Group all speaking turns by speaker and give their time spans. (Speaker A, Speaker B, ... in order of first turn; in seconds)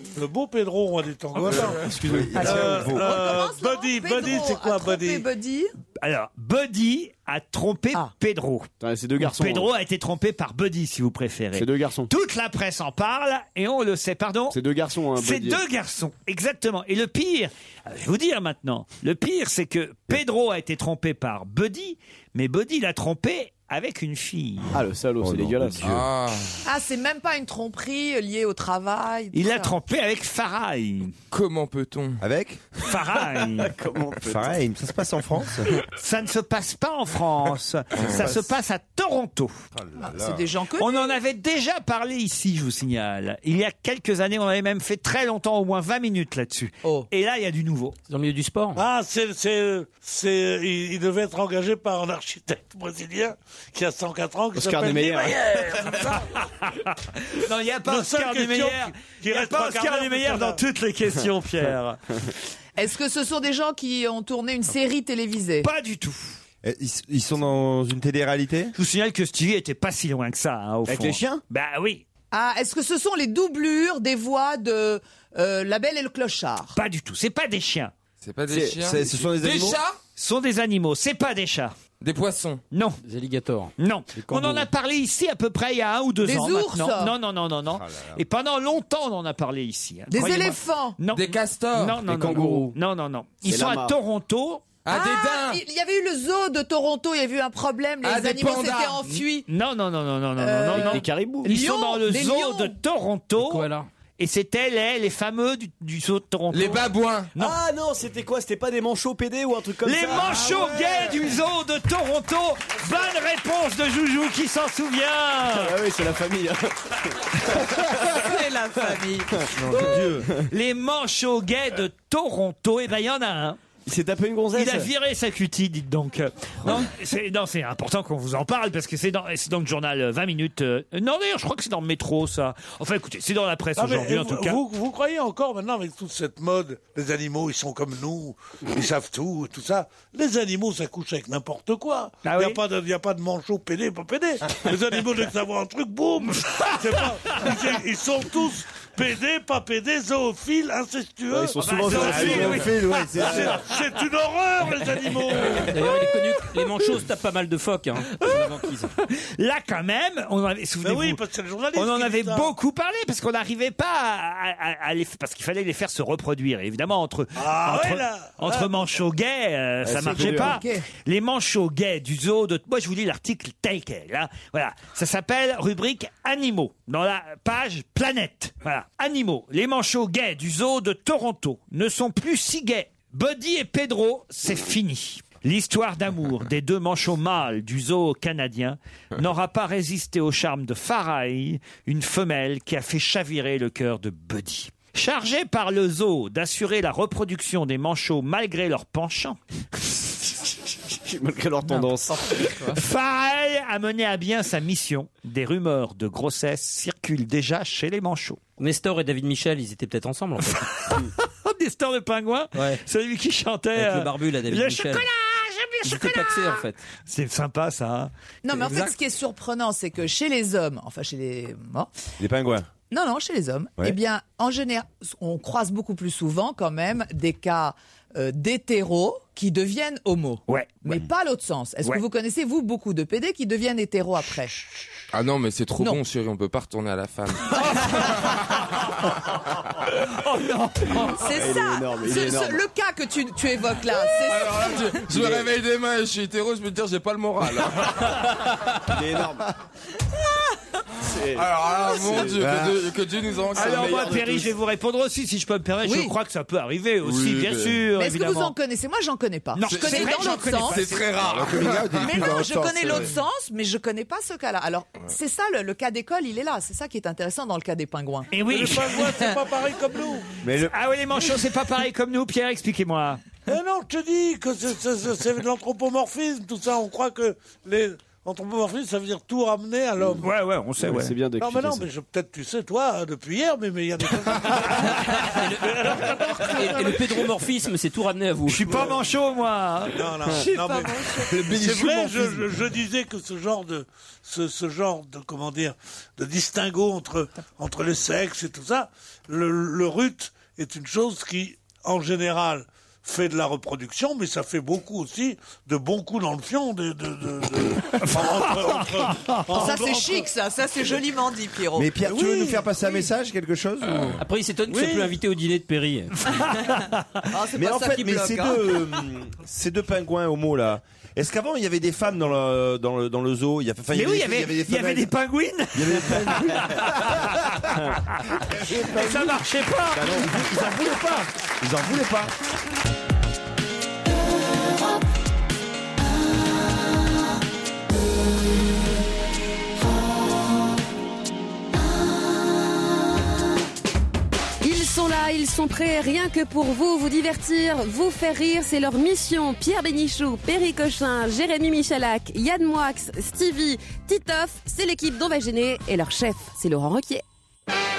Speaker A: 0.1-1.8, 2.4-5.2, 48.8-56.3, 57.8-60.6, 133.8-152.6, 153.2-155.7, 160.8-162.5, 167.3-168.9, 268.5-270.3, 273.5-280.3, 281.4-287.3, 290.0-310.3, 312.1-312.6, 314.8-315.1
Speaker B: 1.6-3.2, 25.2-26.1, 32.2-32.6, 34.2-35.7, 39.7-40.4, 66.6-68.7, 78.8-79.8, 87.7-88.2, 119.5-120.3, 151.9-153.6, 222.2-222.7, 252.4-252.8, 261.2-263.1, 270.4-270.7, 291.4-291.9, 311.7-314.2, 317.5-325.1, 325.7-327.3, 328.5-329.3, 331.6-332.3
Speaker C: 1.8-2.8, 8.8-9.7, 11.5-12.1, 14.5-15.6, 24.7-26.0, 33.4-34.6, 54.5-55.7, 70.9-71.4, 92.0-92.8, 93.4-93.9, 107.3-110.8, 115.5-118.1, 119.4-120.4, 123.8-124.9, 151.3-152.7, 169.8-170.6, 200.9-202.7, 241.2-242.6, 245.1-245.5, 248.8-249.4, 251.0-252.6, 253.6-254.3, 280.8-281.9, 329.9-330.5
Speaker D: 2.4-5.7, 26.6-29.7, 40.0-41.1, 62.8-65.7, 72.3-76.8, 86.2-87.1, 90.1-91.0, 94.9-99.5, 100.4-102.7, 117.9-119.3, 170.3-170.8, 218.4-221.9, 222.9-234.6, 241.1-245.0, 255.8-256.1, 257.9-260.9, 261.9-269.3, 290.4-291.3, 309.5-311.9, 317.3-318.8
Speaker E: 6.0-14.6, 15.2-24.7, 29.3-31.1, 32.8-33.7, 36.0-39.5, 40.8-48.0, 56.2-62.0, 65.6-66.4, 68.8-72.0, 76.8-77.9, 80.2-81.7, 82.7-83.0, 83.8-94.6, 99.5-107.6, 109.8-115.8, 120.5-123.6, 124.5-134.6, 142.2-142.6, 146.4-147.6, 151.7-153.8, 158.2-158.5, 159.2-161.2, 161.7-199.4, 202.7-208.4, 210.5-218.1, 230.5-230.9, 240.1-241.2, 253.5-258.5, 259.6-261.2, 268.3-269.0, 270.7-273.2, 280.2-281.1, 288.5-290.1, 308.0-309.7, 316.3-317.0, 323.9-331.2
Speaker F: 25.8-26.5, 31.3-32.2, 38.0-38.2, 78.2-80.0, 82.0-82.6, 91.1-92.0, 94.8-95.6, 98.0-99.0, 106.5-107.3, 235.1-238.4, 244.2-248.3, 251.3-254.5, 257.0-257.8, 259.7-262.4
Speaker G: 48.1-48.8, 83.0-84.7, 103.4-103.9, 155.7-158.9, 208.6-210.7, 212.5-212.8, 213.7-215.1, 215.8-216.8, 285.2-285.9, 286.4-288.9, 314.2-316.3
Speaker H: 344.6-357.2